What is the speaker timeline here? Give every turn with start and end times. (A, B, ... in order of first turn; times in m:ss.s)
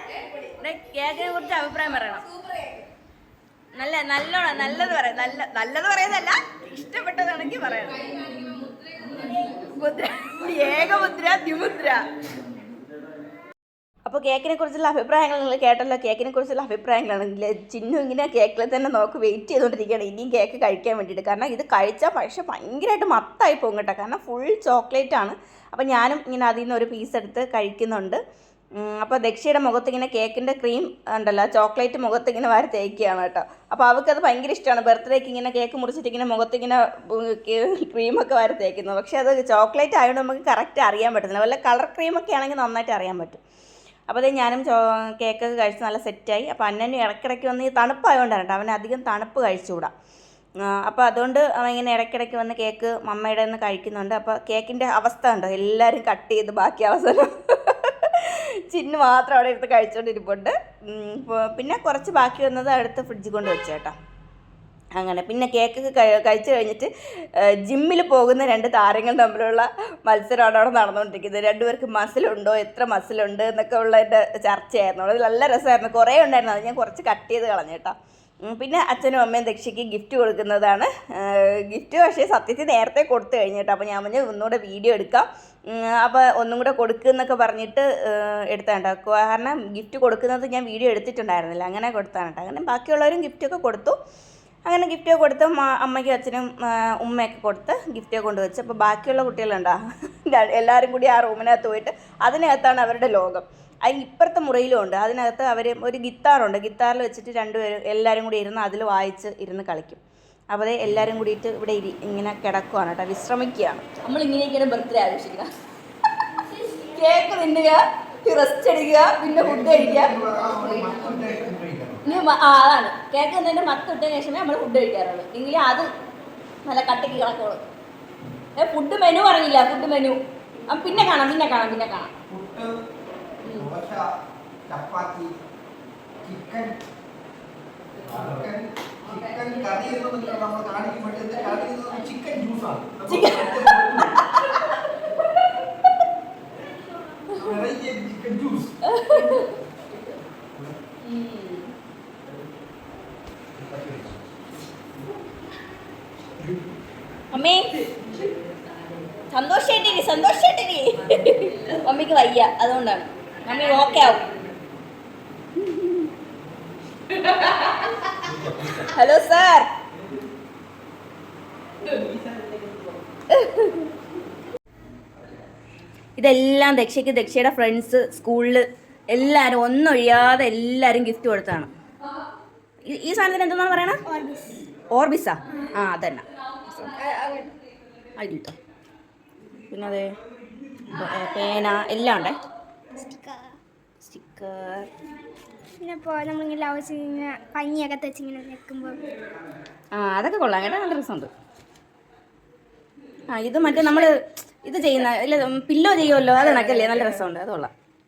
0:00.4-0:02.3 A
0:03.7-0:08.3 A
0:09.4-0:12.1 A
0:14.0-0:28.2 A
0:28.8-0:43.4 A
0:44.1-0:49.9 A
0:50.6-1:03.9 A
1:04.9-1:34.0 A
1:34.7-1:55.5 A
1:56.3-2:00.2 A
1:59.2-2:02.0 B
2:02.0-2:05.9 A
2:06.6-2:07.6 A
2:08.6-2:12.1 A
2:12.3-2:12.7 B
2:13.4-2:14.1 B
2:14.7-2:15.3 B
2:16.2-2:16.8 B
2:18.0-2:24.2 B
2:23.1-2:25.9 A
2:27.3-2:28.8 B
2:28.8-2:29.5 A
2:31.0-2:31.7 A
2:33.6-2:34.2 B
2:37.3-2:37.7 A
2:39.3-2:44.2 A
2:45.6-2:46.0 A
2:47.1-2:48.1 A
2:48.2-2:48.9 B
2:48.7-2:49.7 A
2:51.8-2:52.9 B
2:53.3-2:53.9 A
2:56.2-3:01.7 A
3:02.8-3:04.0 A
3:04.0-3:04.6 C
3:04.9-3:06.9 A
3:07.0-3:07.5 C
3:08.2-3:08.5 A
3:09.7-3:10.1 A
3:10.9-3:12.3 A
3:12.9-3:13.6 C
3:14.0-3:14.9 A
3:15.8-3:19.1 C
3:19.9-3:21.3 A
3:23.3-3:27.7 A